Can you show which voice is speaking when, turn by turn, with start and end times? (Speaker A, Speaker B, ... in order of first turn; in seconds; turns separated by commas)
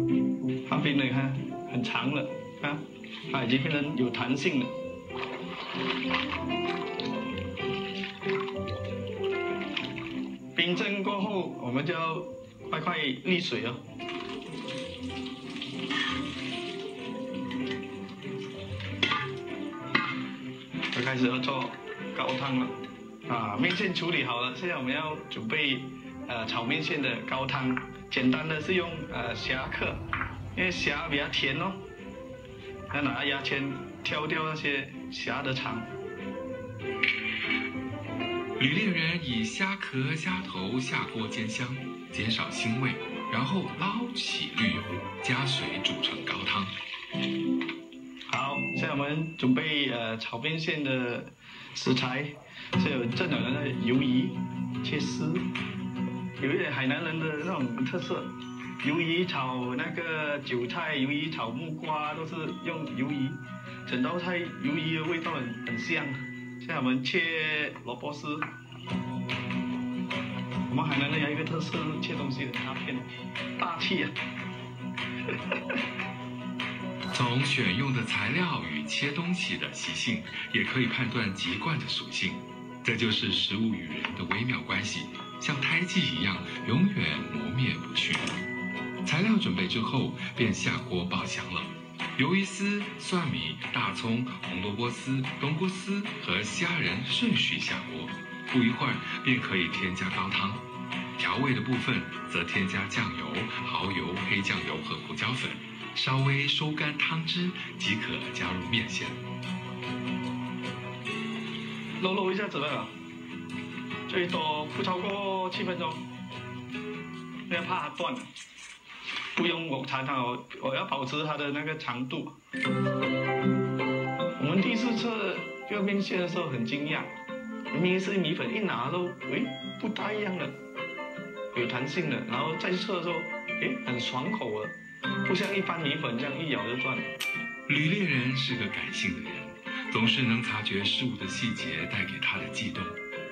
Speaker A: 0.7-4.7, Speaker A: 10.5-13.8, Speaker A: 20.9-30.0, Speaker A: 30.5-31.8, Speaker A: 32.9-35.9, Speaker B: 38.6-46.7, Speaker A: 48.3-55.4, Speaker A: 56.4-58.3, Speaker A: 58.8-68.4, Speaker A: 70.7-74.1, Speaker A: 75.5-75.8, Speaker B: 77.1-88.4, Speaker B: 89.0-100.6, Speaker B: 101.2-109.2, Speaker A: 112.0-112.9, Speaker A: 114.1-116.0, Speaker A: 117.5-118.2, Speaker A: 119.3-122.3, Speaker A: 124.4-127.1, Speaker A: 127.7-130.5, Speaker A: 131.5-137.0, Speaker B: 137.7-143.0